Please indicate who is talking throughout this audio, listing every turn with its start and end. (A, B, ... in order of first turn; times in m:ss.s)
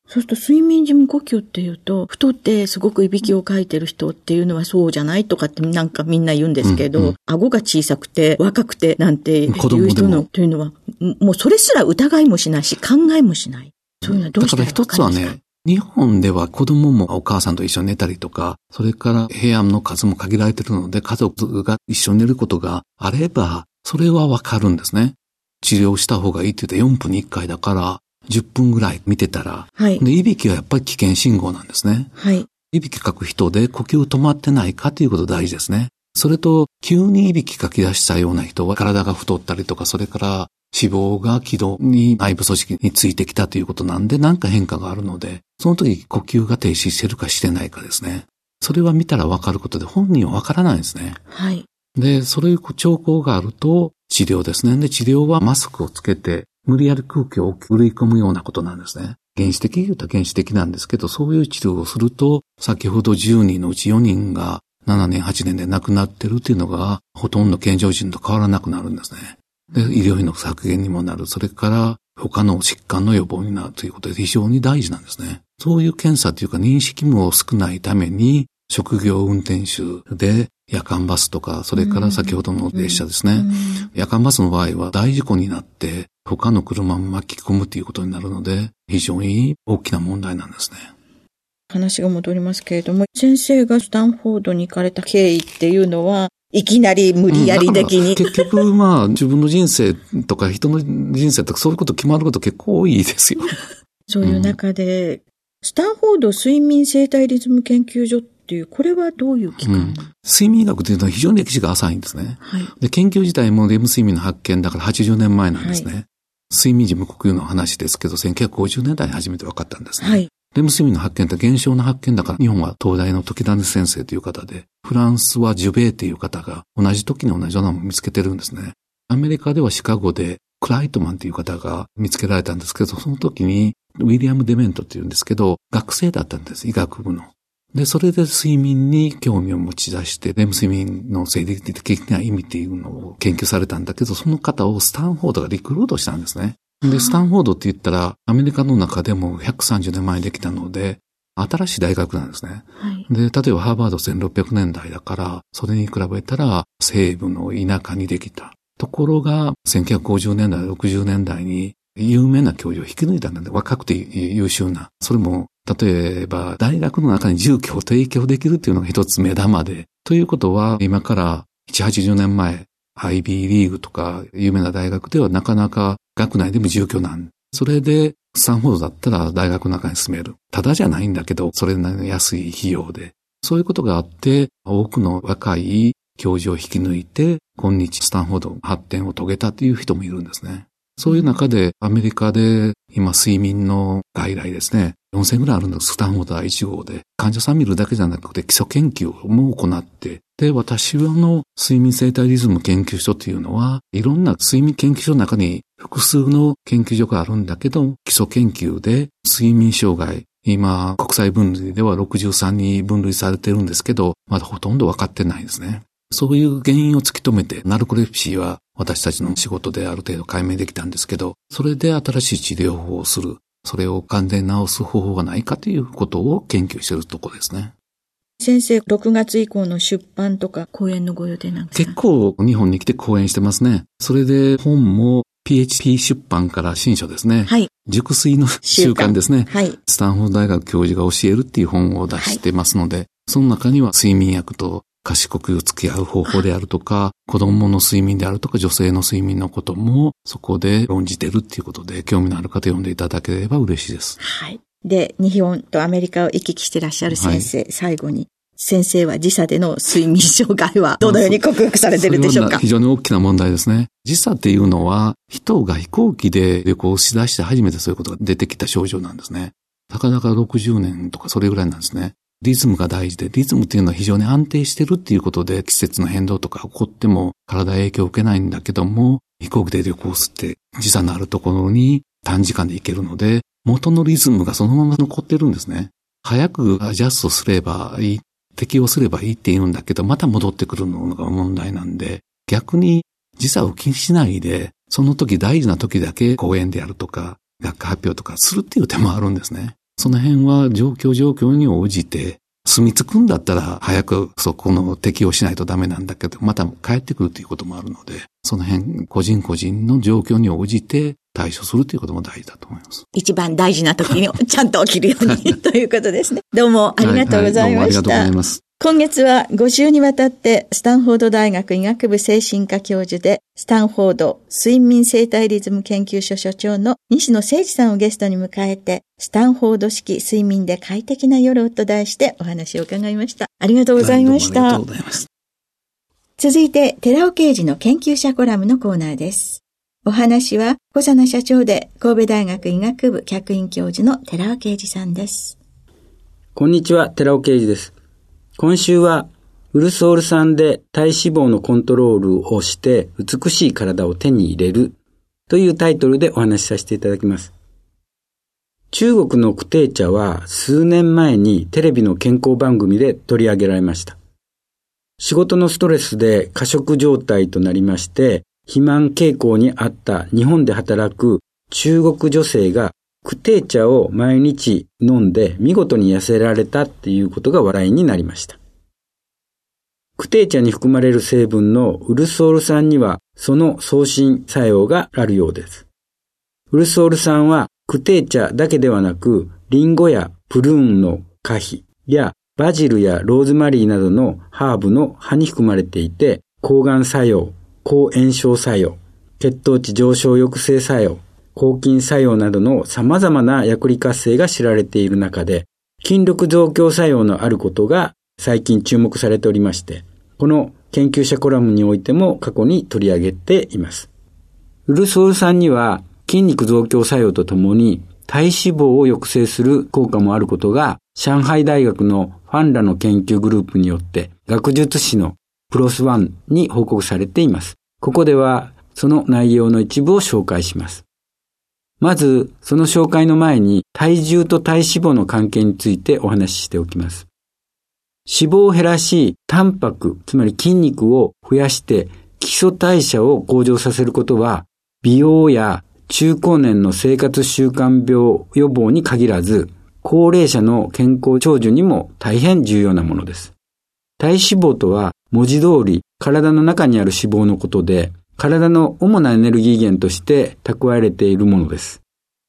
0:00.1-0:15.3 A
0:06.6-0:07.1 B
0:09.5-0:10.3 B
0:14.0-0:32.1 B
0:29.8-0:30.0 A
0:32.2-0:32.5 A
0:32.7-0:51.2 B
0:51.3-0:51.6 A
0:51.9-1:30.9 B
1:21.7-1:23.9 A
1:31.7-1:38.6 A
1:37.3-1:43.6 B
1:44.1-1:50.1 A
1:44.2-1:44.6 B
1:49.6-3:47.7 B
1:52.4-1:52.7 A
1:55.6-1:55.9 A
2:00.0-2:00.3 A
2:26.8-2:27.2 A
2:32.8-2:33.1 A
3:11.0-3:11.4 A
3:48.4-3:52.0 A
3:51.7-4:14.2 B
3:58.6-3:59.8 A
4:14.2-4:22.6 A
4:17.1-4:17.5 B
4:21.0-4:21.4 B
4:22.0-5:13.0 B
5:13.1-5:34.8 A
5:17.0-5:18.6 B
5:34.0-5:35.3 B
5:36.4-5:45.6 A
5:46.5-5:47.9 C
5:48.6-5:55.0 C
5:55.5-5:57.5 C
5:58.9-6:04.2 C
6:05.2-6:18.6 C
6:20.2-6:25.8 C
6:26.7-6:54.1 C
6:54.9-7:11.0 C
7:12.0-7:17.3 C
7:18.2-7:33.5 C
7:34.2-7:42.0 C